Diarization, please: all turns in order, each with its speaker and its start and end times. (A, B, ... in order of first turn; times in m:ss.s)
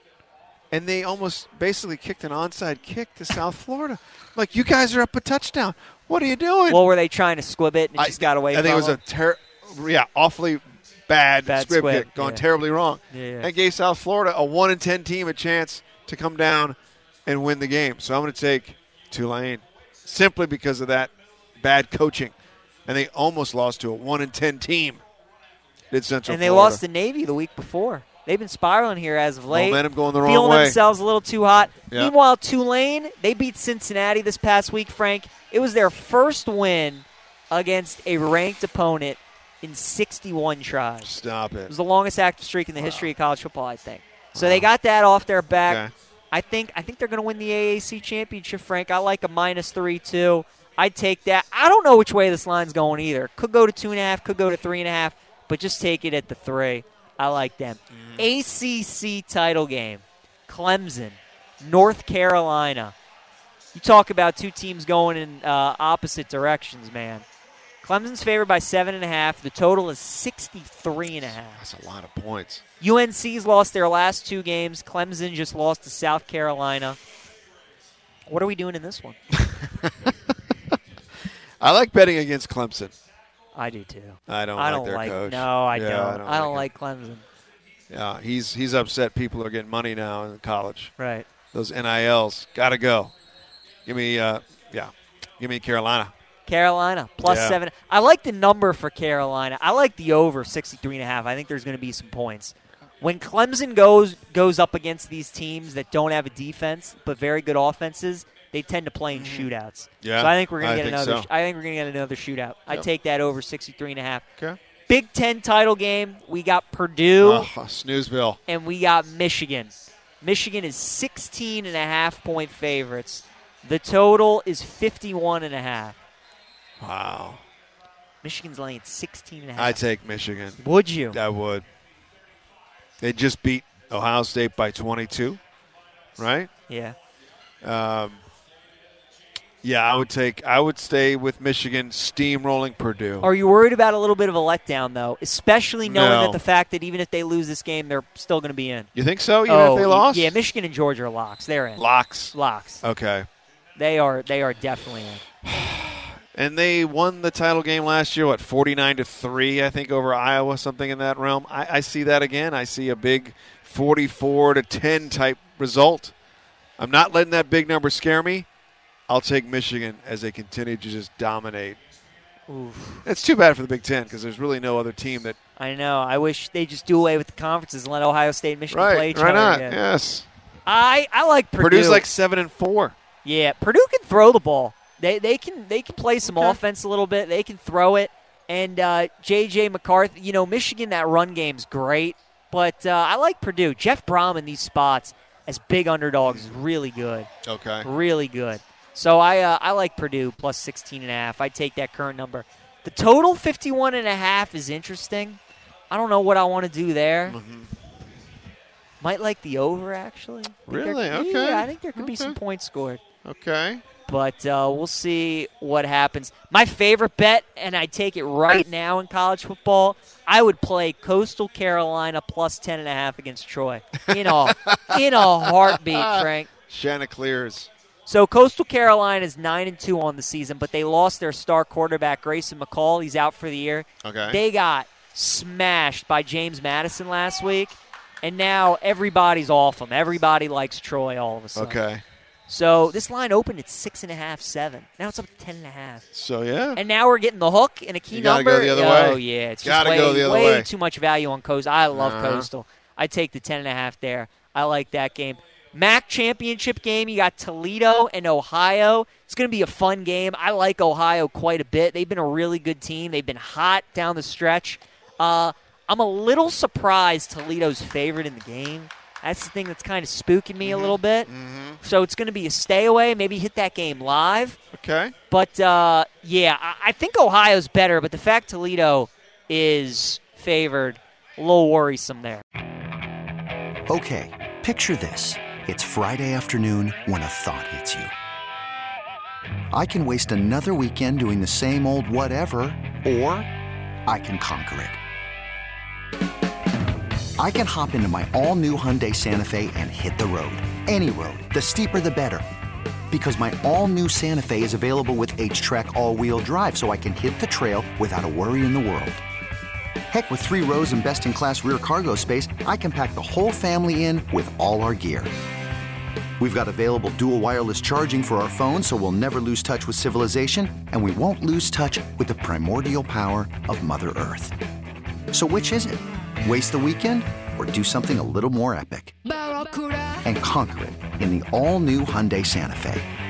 0:00.7-0:06.8 A
0:06.7-0:09.0 B
0:08.0-0:22.3 A
0:11.4-0:12.4 B
0:13.1-0:13.5 B
0:22.9-0:25.0 A
0:25.9-0:26.8 A
0:26.3-0:41.1 B
0:29.5-0:30.8 A
0:41.0-0:41.7 A
0:41.7-1:02.9 B
0:42.8-0:43.1 A
0:44.3-0:44.7 A
0:45.6-0:45.9 A
0:57.9-0:58.2 A
1:03.7-1:07.2 B
1:07.8-1:11.6 B
1:11.6-1:12.6 A
1:12.8-1:17.0 B
1:18.3-1:19.2 B
1:19.4-1:19.9 A
1:21.6-1:22.9 A
1:23.5-1:27.2 B
1:24.3-1:26.7 A
1:27.9-1:30.9 A
1:31.0-1:31.3 B
1:31.5-1:33.1 A
1:33.8-1:36.1 A
1:36.4-1:54.2 B
1:37.2-1:37.6 A
1:49.1-1:49.5 A
1:50.0-1:51.3 A
1:54.9-1:57.5 B
1:57.2-1:58.4 A
1:58.5-2:06.0 B
2:06.8-2:07.4 A
2:08.2-2:09.8 B
2:09.6-2:10.6 A
2:10.6-2:11.2 B
2:11.1-2:11.6 A
2:13.0-2:15.4 A
2:16.2-2:16.5 A
2:16.7-2:17.0 B
2:17.6-2:18.2 A
2:19.6-2:23.3 A
2:23.2-2:28.9 B
2:25.8-2:26.4 A
2:28.9-2:30.4 A
2:29.4-2:32.8 B
2:31.8-2:33.3 A
2:33.8-2:35.2 B
2:35.4-2:46.1 A
2:46.8-2:48.4 A
2:49.1-2:51.8 A
2:52.5-2:53.0 B
2:53.0-2:55.4 A
2:55.6-2:59.8 B
2:58.7-3:00.2 A
3:00.6-3:02.1 B
3:01.6-3:02.9 A
3:03.2-3:17.3 B
3:06.2-3:06.6 A
3:16.3-3:16.5 A
3:17.4-3:17.9 A
3:17.8-3:27.4 B
3:27.3-3:27.7 A
3:29.0-3:33.0 B
3:30.7-3:32.4 A
3:33.2-3:33.8 A
3:34.1-3:46.5 B
3:44.5-3:47.7 A
3:48.0-4:01.8 B
3:54.0-3:54.4 A
4:01.5-4:02.0 A
4:02.5-4:06.0 B
4:06.1-4:06.8 A
4:06.7-4:31.3 B
4:08.1-4:10.7 A
4:11.9-4:12.5 A
4:30.6-4:31.8 A
4:31.8-4:34.6 B
4:34.7-4:35.1 A
4:35.3-4:42.4 B
4:43.9-4:48.1 C
4:49.7-4:53.5 C
4:54.1-4:55.0 C
4:57.4-5:02.4 C
5:03.1-5:09.2 C
5:10.1-5:15.3 C
5:16.4-5:24.5 C
5:25.3-5:29.2 C
5:30.2-5:33.1 C